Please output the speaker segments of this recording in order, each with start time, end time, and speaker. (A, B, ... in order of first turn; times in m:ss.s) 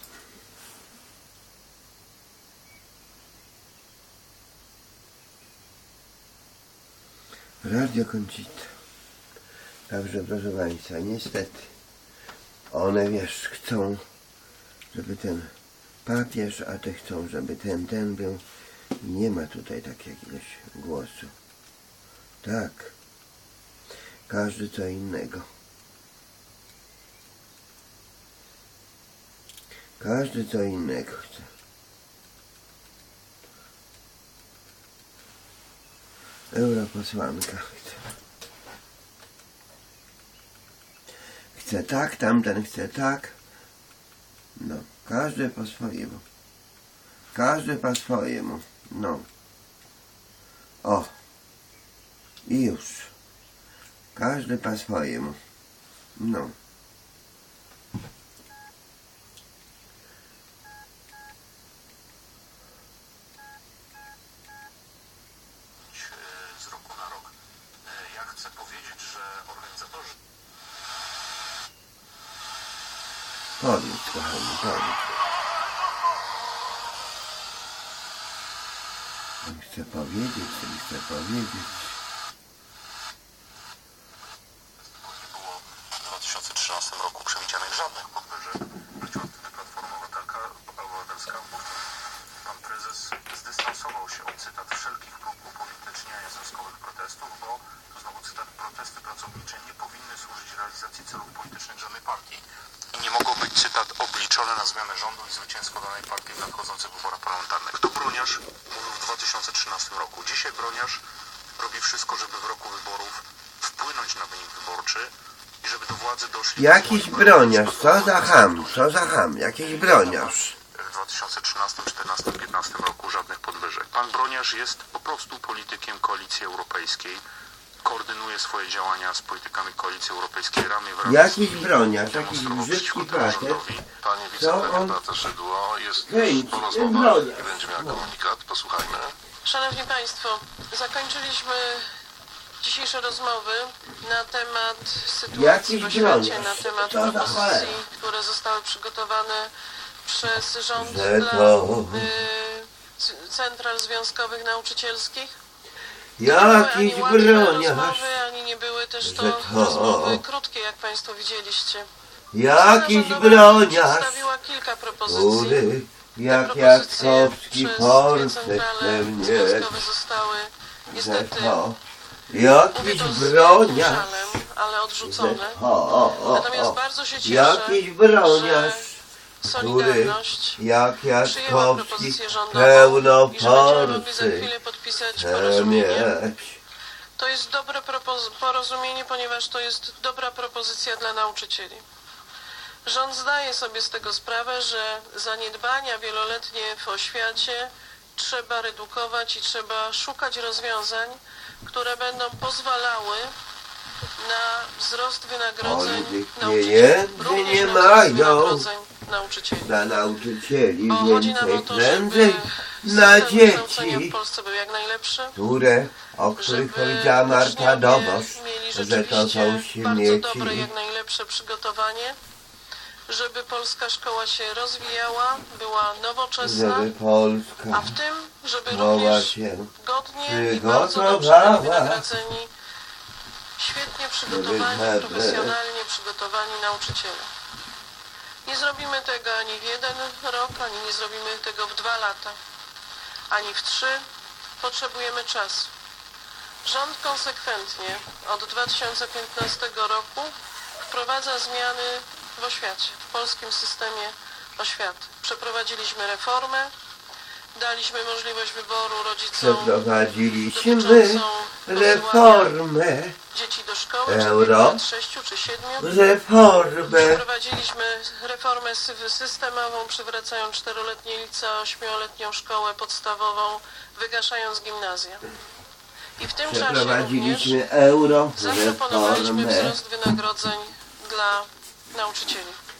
0:07.6-0:08.7 A
0:09.9-0:11.7 A
0:12.7-0:14.0 A
0:14.9-0:15.5 A
0:16.0-0:18.4 A
0:19.0-0:21.3 A
0:22.4-0:23.0 A
0:24.3-0:25.5 A
0:30.0-0:31.5 A
0:36.5-0:38.1 A
0:41.6-0:43.4 A
0:44.6-0:46.2 A
0:47.3-0:49.3 A
0:50.8-0:51.1 A
0:52.5-0:53.1 A
0:54.2-0:55.4 A
0:56.2-0:56.5 A
1:05.9-1:07.3 B
1:07.8-1:10.1 B
1:13.6-1:15.2 A
1:19.4-1:22.0 A
1:25.0-1:31.8 B
1:32.4-1:51.0 B
1:51.6-1:59.0 B
1:56.6-2:00.6 A
1:59.7-2:07.2 B
2:07.8-2:13.9 B
2:11.0-2:13.6 A
2:13.9-2:19.2 C
2:14.4-2:15.0 A
2:16.0-2:18.1 A
2:19.4-2:21.9 D
2:22.6-2:29.5 D
2:25.3-2:27.8 A
2:30.0-2:35.3 D
2:30.8-2:32.1 A
2:36.2-2:38.1 A
2:36.2-2:41.9 D
2:39.0-2:40.2 A
2:42.3-2:44.3 A
2:42.5-2:45.7 D
2:45.1-2:49.8 A
2:46.3-2:51.6 D
2:50.9-2:51.8 A
2:52.3-2:54.4 A
2:52.7-2:55.6 D
2:55.0-2:59.0 A
2:56.3-3:00.6 D
2:59.5-3:04.5 A
3:01.2-3:06.2 D
3:05.1-3:06.6 A
3:07.2-3:11.8 D
3:12.8-3:23.3 D
3:24.2-3:29.7 D
3:25.6-3:28.7 A
3:29.6-3:34.2 A
3:30.9-3:35.4 D
3:35.4-3:40.7 A
3:36.4-3:42.2 D
3:43.1-3:46.9 D
3:46.4-3:47.9 A
3:47.7-3:52.5 D
3:48.7-3:52.1 A
3:53.6-3:57.3 D
3:54.3-3:55.6 A
3:58.4-4:02.4 D
4:03.3-4:04.0 D
4:04.6-4:05.7 D
4:06.6-4:10.3 D
4:10.8-4:16.7 D
4:17.6-4:19.8 D
4:19.4-4:23.2 A
4:20.5-4:22.5 D
4:23.3-4:25.9 D
4:24.1-4:24.8 A
4:25.8-4:27.2 A
4:26.9-4:35.2 D
4:36.2-4:37.6 D
4:36.4-4:39.8 A
4:38.4-4:42.6 D